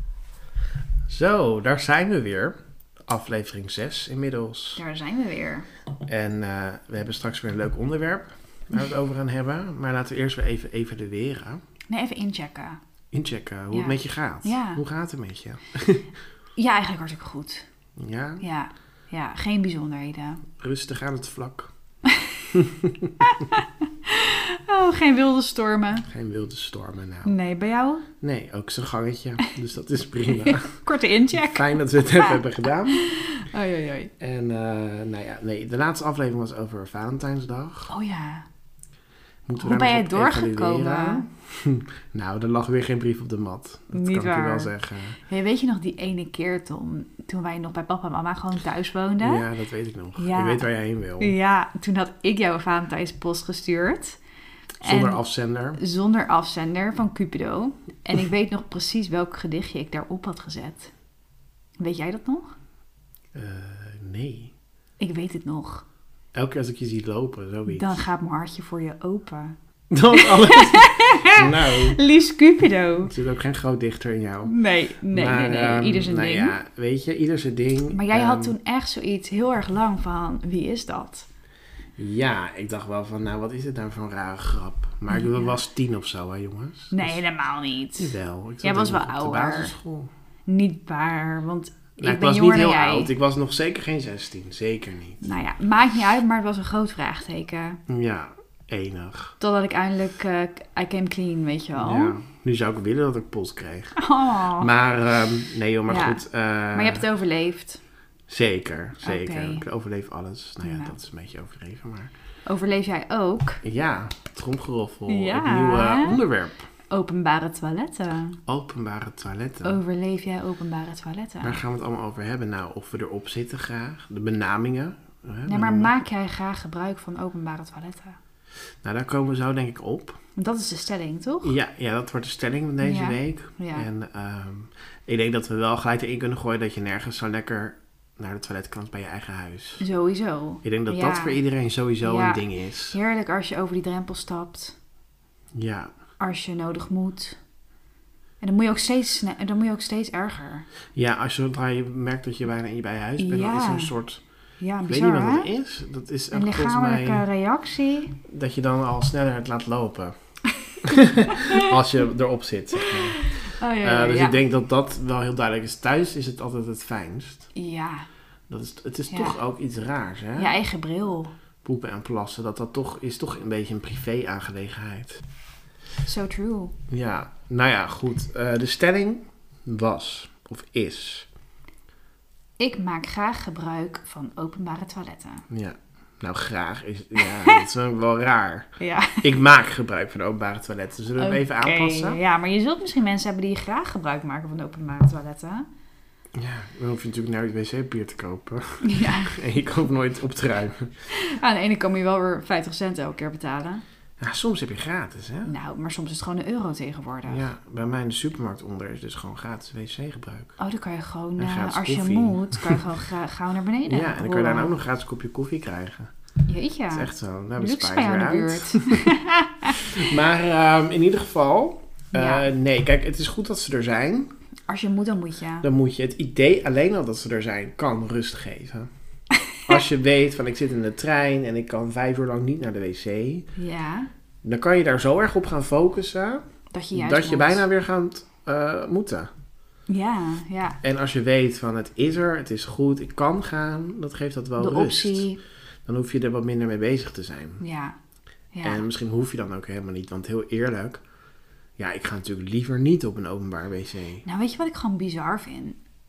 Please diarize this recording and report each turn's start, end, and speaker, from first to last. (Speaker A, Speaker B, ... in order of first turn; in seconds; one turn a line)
Speaker A: 1.1-4.8
Speaker B: 4.8-5.7
Speaker A: 6.1-11.6
Speaker B: 11.9-12.8
Speaker A: 13.1-16.1
Speaker B: 13.7-14.8
Speaker B: 16.6-17.6
Speaker A: 18.0-18.4
Speaker B: 18.4-20.4
Speaker A: 20.6-21.7
Speaker A: 22.5-23.1
Speaker B: 23.3-26.1
Speaker A: 26.0-27.3
Speaker B: 27.2-28.1
Speaker A: 28.2-30.8
Speaker B: 30.5-34.1
Speaker A: 31.5-33.1
Speaker A: 34.2-37.9
Speaker B: 37.9-38.5
Speaker A: 39.5-45.2
Speaker B: 39.6-41.3
Speaker B: 43.9-49.5
Speaker A: 49.2-51.3
Speaker B: 50.1-50.7
Speaker B: 51.2-54.2
Speaker A: 54.8-55.8
Speaker B: 54.8-55.2
Speaker B: 55.8-60.9
Speaker B: 61.8-62.5
Speaker A: 63.3-64.5
Speaker B: 65.0-65.8
Speaker A: 66.3-67.9
Speaker B: 67.7-69.6
Speaker A: 69.9-72.0
Speaker B: 70.1-73.1
Speaker A: 73.0-74.5
Speaker B: 74.4-76.5
Speaker A: 75.1-78.5
Speaker B: 77.9-81.2
Speaker A: 82.0-87.2
Speaker B: 85.1-85.5
Speaker B: 86.9-89.7
Speaker A: 88.0-90.1
Speaker B: 90.5-93.1
Speaker A: 92.0-95.3
Speaker B: 95.2-97.8
Speaker A: 97.9-99.3
Speaker B: 99.4-102.2
Speaker A: 101.7-107.1
Speaker B: 104.0-104.7
Speaker B: 105.9-107.8
Speaker A: 108.3-112.1
Speaker B: 109.0-109.6
Speaker B: 110.6-111.0
Speaker B: 112.5-113.6
Speaker A: 113.6-116.7
Speaker B: 115.1-116.2
Speaker B: 116.9-118.4
Speaker A: 118.5-119.8
Speaker B: 119.6-121.6
Speaker A: 121.4-125.9
Speaker B: 125.4-128.2
Speaker A: 128.8-130.2
Speaker B: 130.4-131.5
Speaker A: 131.4-139.8
Speaker B: 132.8-133.9
Speaker B: 139.8-141.4
Speaker A: 140.6-142.9
Speaker B: 142.0-144.8
Speaker A: 145.5-145.9
Speaker B: 146.2-147.4
Speaker B: 148.4-150.7
Speaker A: 150.9-154.2
Speaker B: 153.2-153.9
Speaker B: 154.6-155.5
Speaker A: 154.8-157.2
Speaker B: 156.3-158.2
Speaker A: 158.2-160.1
Speaker A: 160.8-167.5
Speaker B: 163.2-164.4
Speaker B: 167.5-168.1
Speaker A: 168.5-170.5
Speaker B: 169.1-169.3
Speaker B: 170.3-171.3
Speaker A: 171.6-175.2
Speaker B: 176.0-176.7
Speaker A: 176.9-181.3
Speaker B: 182.6-185.4
Speaker A: 185.5-188.7
Speaker B: 187.2-187.6
Speaker B: 188.8-189.3
Speaker A: 189.2-192.2
Speaker B: 191.2-195.7
Speaker A: 196.3-201.1
Speaker B: 198.8-199.4
Speaker B: 201.1-203.8
Speaker A: 204.2-205.5
Speaker B: 205.4-207.4
Speaker A: 207.3-210.6
Speaker B: 210.6-214.8
Speaker A: 211.4-212.8
Speaker A: 213.9-216.1
Speaker B: 216.4-219.9
Speaker A: 216.9-219.1
Speaker A: 219.7-224.3
Speaker B: 222.1-222.5
Speaker B: 224.7-225.7
Speaker A: 225.6-228.9
Speaker A: 229.6-233.5
Speaker B: 233.6-234.1
Speaker A: 234.4-239.3
Speaker B: 236.7-237.6
Speaker B: 239.9-240.8
Speaker A: 240.8-245.3
Speaker B: 244.6-245.4
Speaker A: 245.8-247.6
Speaker B: 247.6-247.9
Speaker B: 248.5-248.8
Speaker A: 248.6-251.0
Speaker A: 251.8-254.2
Speaker B: 254.2-255.8